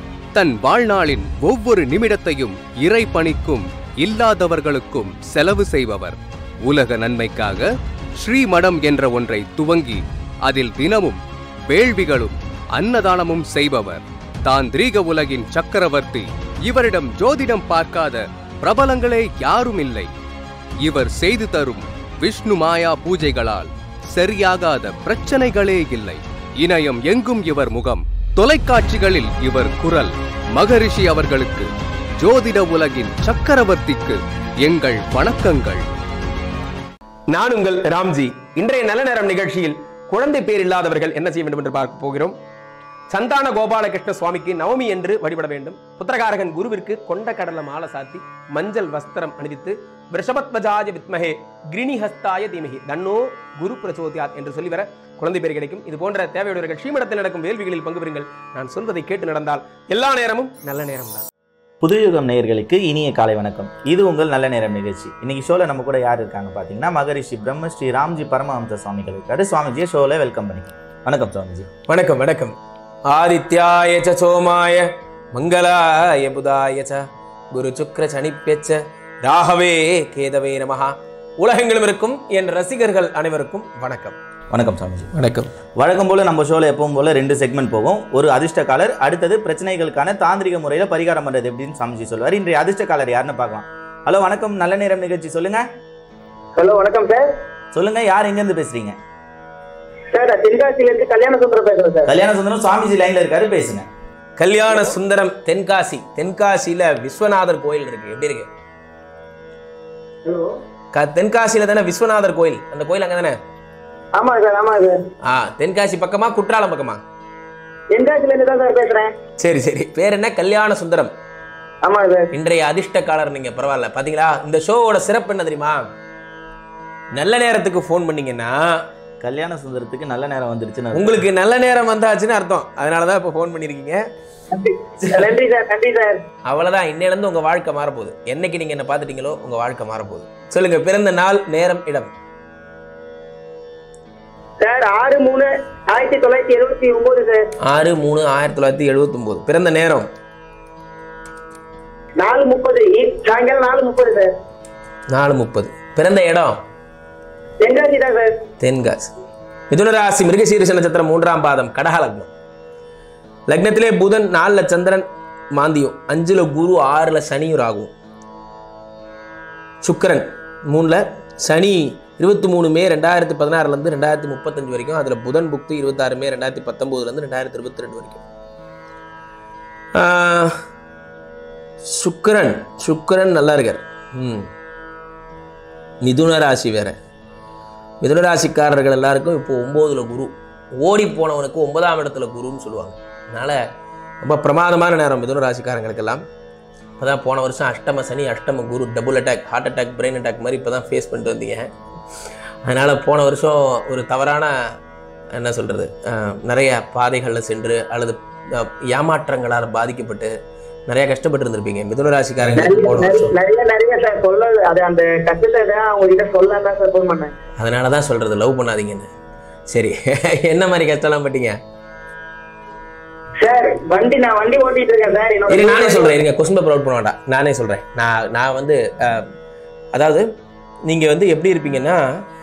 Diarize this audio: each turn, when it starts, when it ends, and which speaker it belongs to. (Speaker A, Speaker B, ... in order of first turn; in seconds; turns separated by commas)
Speaker A: 0.3-20.1, Speaker A: 20.8-35.9, Speaker B: 37.3-42.4, Speaker B: 43.1-61.2, Speaker C: 61.8-71.7, Speaker B: 71.9-72.6, Speaker B: 73.1-84.2, Speaker C: 84.5-85.1, Speaker B: 85.1-85.5, Speaker C: 85.8-95.6, Speaker D: 96.6-97.3, Speaker C: 97.7-99.0, Speaker D: 100.1-102.1, Speaker C: 102.1-103.9, Speaker B: 104.4-108.5, Speaker D: 110.2-110.5, Speaker B: 110.9-113.4, Speaker D: 114.1-115.0, Speaker B: 115.2-117.0, Speaker D: 117.9-119.1, Speaker B: 119.4-121.1, Speaker D: 121.8-122.3, Speaker B: 122.3-125.8, Speaker B: 127.1-128.8, Speaker C: 129.2-131.2, Speaker B: 130.9-134.0, Speaker D: 134.5-136.2, Speaker B: 136.5-142.1, Speaker D: 144.6-147.5, Speaker B: 147.6-150.1, Speaker D: 152.2-154.3, Speaker B: 155.1-156.6, Speaker D: 157.6-158.3, Speaker B: 158.6-159.1, Speaker B: 159.7-162.3, Speaker B: 163.5-167.9, Speaker B: 169.8-178.2, Speaker B: 179.9-180.6, Speaker B: 181.9-184.5, Speaker B: 186.0-186.9, Speaker B: 188.0-193.6, Speaker B: 194.2-196.2, Speaker B: 197.0-201.7, Speaker B: 202.7-204.5, Speaker B: 205.3-210.3, Speaker B: 210.9-213.3, Speaker D: 212.6-217.3, Speaker B: 217.6-219.1, Speaker B: 219.7-221.6, Speaker D: 223.4-226.2, Speaker B: 225.5-229.3, Speaker B: 229.9-230.3, Speaker B: 230.9-232.0